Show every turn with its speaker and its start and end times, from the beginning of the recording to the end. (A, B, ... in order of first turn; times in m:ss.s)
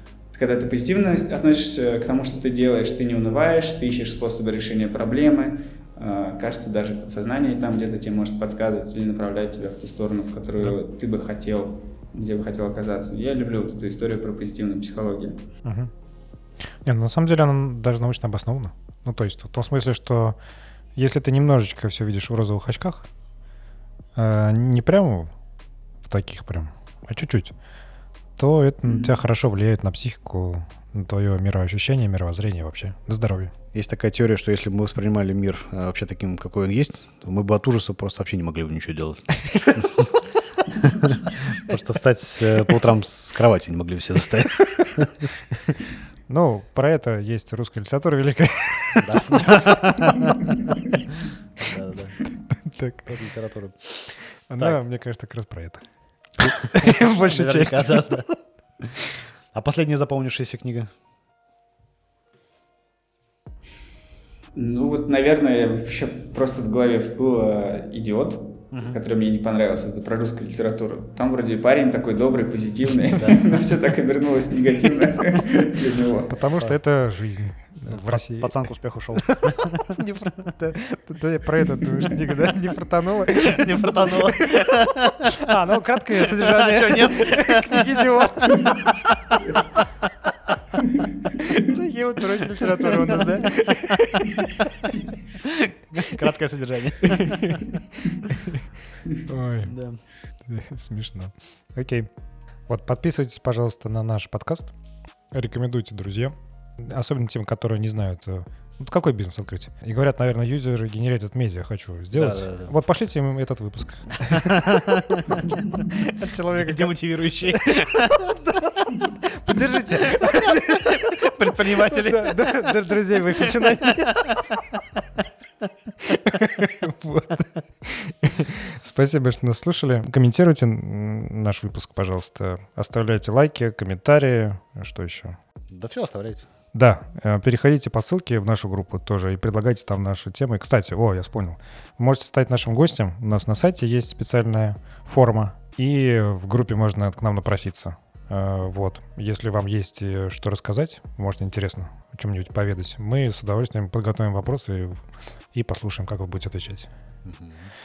0:00.3-0:15.4 A
0:15.6-0:15.9 B
0:16.7-0:20.4 B
0:21.0-0:23.1 B
0:24.2-0:25.3 B
0:26.0-0:27.5 B
0:28.4-0:33.5 B
0:28.8-0:29.1 A
0:33.7-0:45.3 C
0:45.6-0:50.5 B
0:49.0-0:50.4 C
0:51.6-0:52.2 C
0:52.5-0:53.1 B
0:53.0-0:54.8 C
0:54.3-0:58.3 B
0:56.4-0:58.3 C
0:59.5-1:00.9 C
1:04.5-1:16.3 A
1:08.7-1:09.0 C
1:13.1-1:13.5 C
1:16.3-1:24.7 B
1:17.9-1:19.9 C
1:23.4-1:25.3 C
1:25.2-1:28.8 B
1:26.2-1:30.3 C
1:31.4-1:34.7 B
1:32.8-1:34.0 C
1:35.4-1:37.8 C
1:37.0-1:38.6 B
1:39.2-1:39.8 B
1:39.6-1:40.0 C
1:40.4-1:42.1 B
1:42.7-1:44.7 B
1:45.3-2:04.4 B
1:52.1-1:52.7 C
1:54.3-1:55.6 C
1:56.5-1:58.3 C
2:00.0-2:02.7 C
2:03.4-2:04.8 C
2:06.0-2:15.4 B
2:15.7-2:16.5 C
2:16.7-2:36.9 B
2:37.2-2:37.7 C